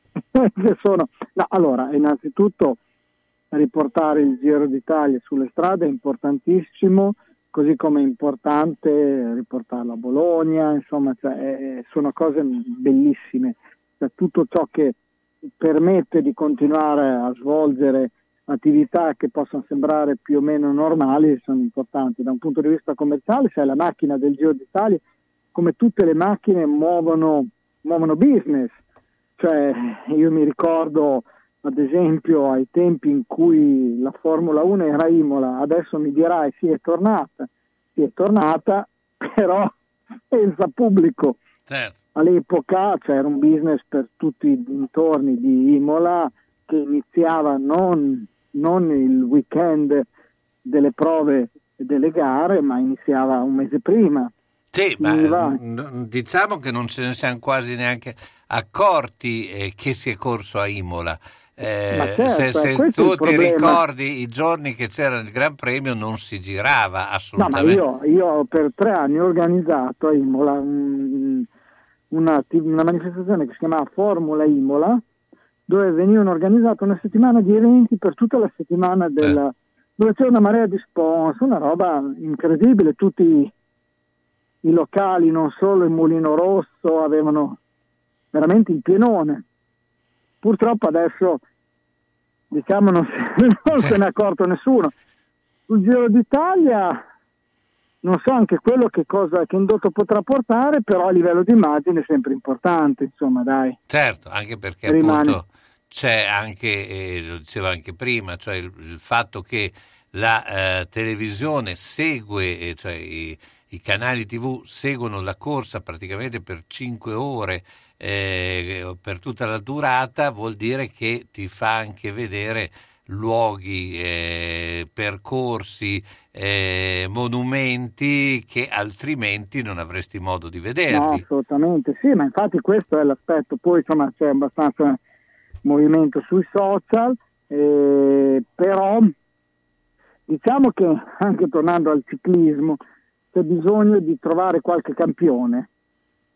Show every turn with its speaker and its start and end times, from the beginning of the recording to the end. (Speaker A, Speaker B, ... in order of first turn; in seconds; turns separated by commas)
Speaker A: 0.3-2.8, Speaker A: 3.5-15.0, Speaker A: 15.6-25.0, Speaker A: 25.5-28.8, Speaker A: 29.4-39.7, Speaker A: 40.3-41.4, Speaker B: 41.7-42.0, Speaker A: 42.1-50.1, Speaker A: 50.6-54.3, Speaker B: 54.7-67.8, Speaker A: 55.0-55.6, Speaker A: 61.9-63.8, Speaker A: 67.4-71.5, Speaker A: 72.1-75.0, Speaker A: 75.7-83.5, Speaker A: 84.6-87.6, Speaker A: 88.3-89.4, Speaker A: 90.4-91.4, Speaker A: 92.5-94.9, Speaker A: 95.7-97.0, Speaker A: 98.0-103.8, Speaker B: 103.9-131.2, Speaker A: 104.9-105.4, Speaker A: 130.9-135.0, Speaker A: 135.6-139.1, Speaker A: 140.3-142.8, Speaker A: 143.3-145.7